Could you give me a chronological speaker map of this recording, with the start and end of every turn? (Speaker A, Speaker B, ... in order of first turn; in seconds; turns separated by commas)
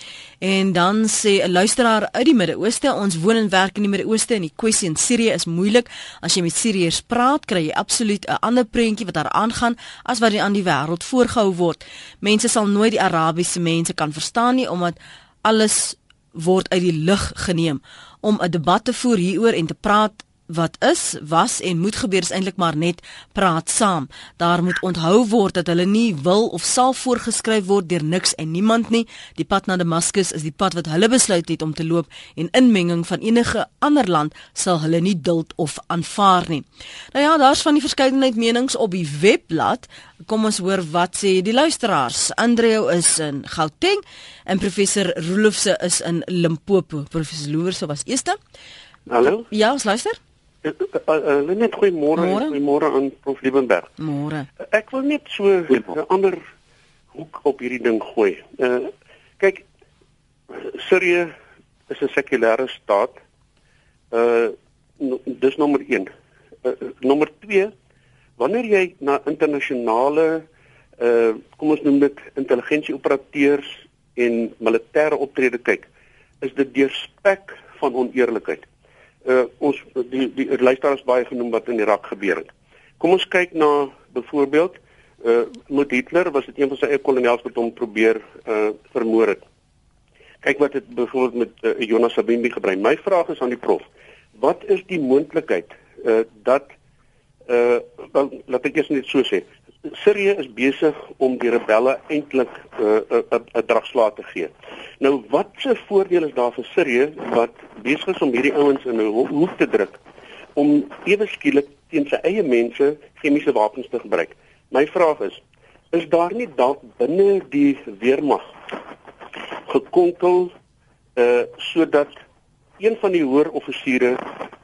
Speaker A: 0.4-48.4, Speaker B: 49.1-49.4, Speaker A: 49.3-50.2, Speaker B: 50.6-53.9, Speaker A: 52.1-52.5, Speaker A: 54.0-54.5, Speaker B: 54.7-56.4, Speaker B: 57.1-59.6, Speaker B: 60.5-61.3, Speaker B: 61.9-63.2, Speaker B: 64.1-66.1, Speaker B: 66.6-67.7, Speaker B: 68.4-70.5, Speaker B: 71.0-75.9, Speaker B: 76.4-78.7, Speaker B: 79.2-89.5, Speaker B: 90.4-96.7, Speaker B: 97.5-110.0, Speaker B: 110.5-118.5, Speaker B: 119.7-120.5, Speaker B: 121.2-122.2, Speaker B: 122.8-124.3